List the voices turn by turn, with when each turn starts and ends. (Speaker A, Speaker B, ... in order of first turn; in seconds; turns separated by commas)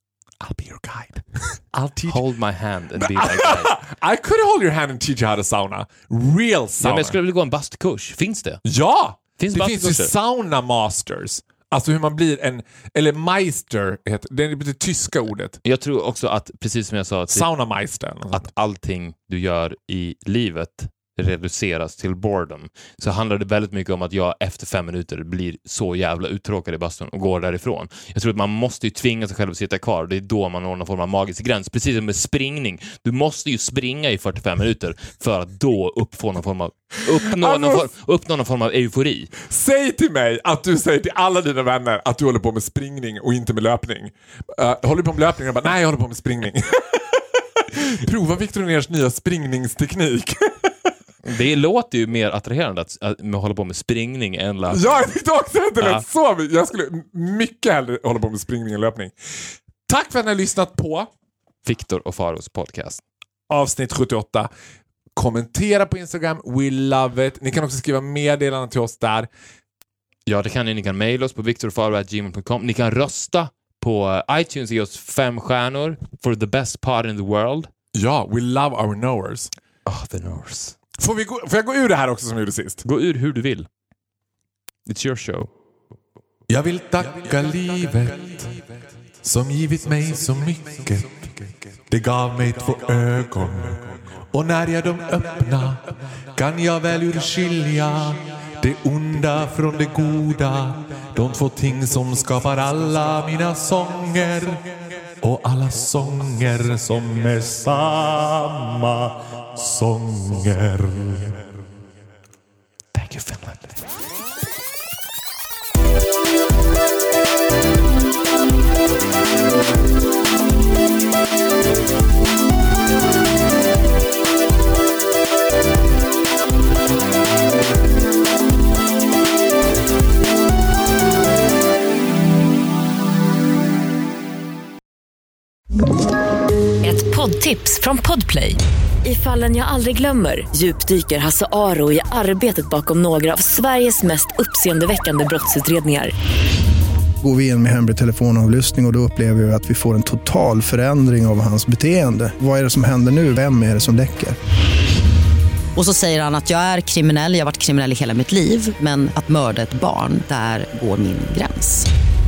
Speaker A: 0.4-2.2, Speaker B: 2.1-3.7, Speaker A: 3.0-7.1, Speaker B: 6.8-8.6, Speaker A: 8.6-15.6, Speaker B: 9.4-10.1, Speaker B: 15.6-17.5, Speaker A: 17.3-18.5, Speaker B: 18.3-39.3, Speaker A: 37.2-37.9, Speaker A: 39.4-50.9, Speaker B: 51.2-55.1, Speaker A: 54.7-59.1, Speaker A: 59.9-61.1, Speaker B: 61.6-63.0, Speaker A: 63.5-64.5, Speaker A: 65.2-69.3, Speaker B: 70.2-77.7, Speaker A: 77.9-79.5, Speaker B: 79.8-80.8, Speaker A: 81.0-82.8, Speaker B: 82.8-83.7, Speaker B: 84.9-85.5, Speaker A: 86.5-88.5, Speaker A: 89.2-91.3, Speaker A: 91.9-111.5, Speaker B: 112.9-113.8, Speaker C: 136.8-146.1, Speaker D: 147.2-154.4, Speaker E: 155.8-161.9